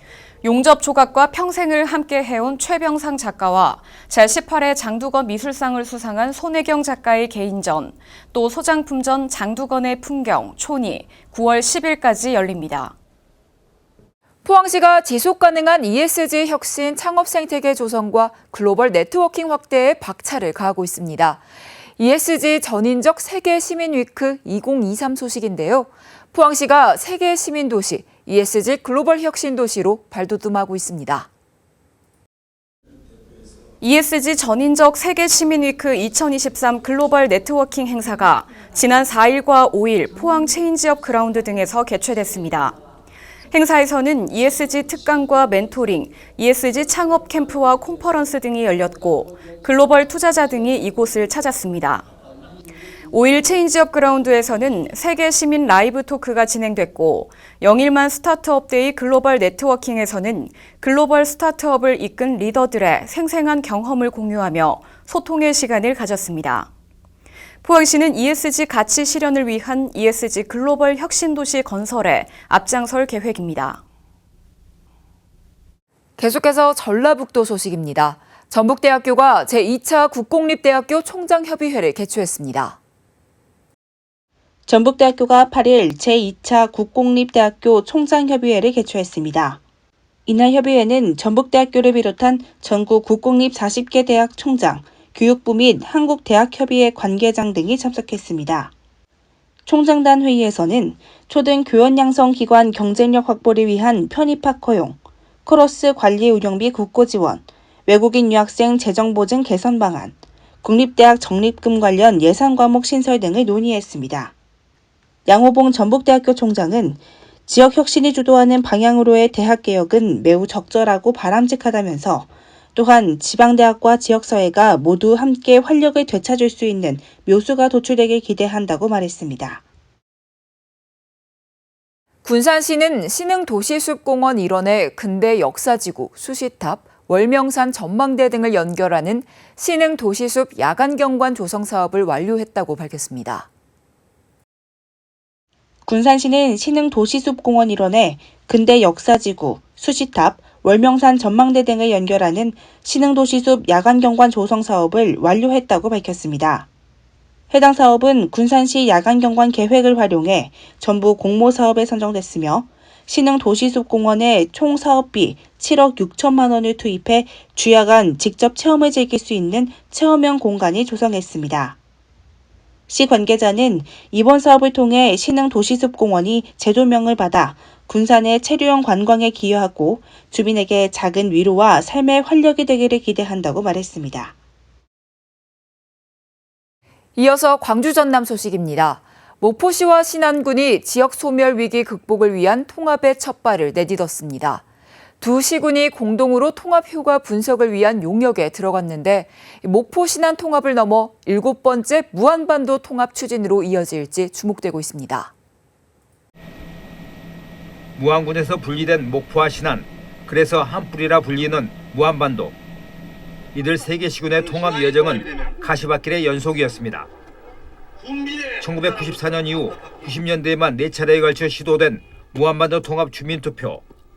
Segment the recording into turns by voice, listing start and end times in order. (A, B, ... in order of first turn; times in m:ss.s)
0:00.4-0:12.9 A
0:14.4-0:21.4 B
0:22.0-0:31.3 B
0:33.8-0:42.8 A
0:43.5-0:52.1 A
0:53.1-1:06.7 A
1:07.6-1:13.8 A
1:16.2-1:22.8 B
1:24.7-1:29.6 C
1:30.2-1:38.7 C
1:39.6-1:54.3 C
1:55.2-2:09.6 C
2:12.2-2:23.5 B
2:25.8-2:36.7 C
2:37.5-2:51.8 C
2:52.9-3:04.3 C
3:07.2-3:14.6 B
3:15.2-3:25.3 B
3:28.0-3:32.5 D
3:33.5-3:37.1 D
3:38.6-3:43.8 D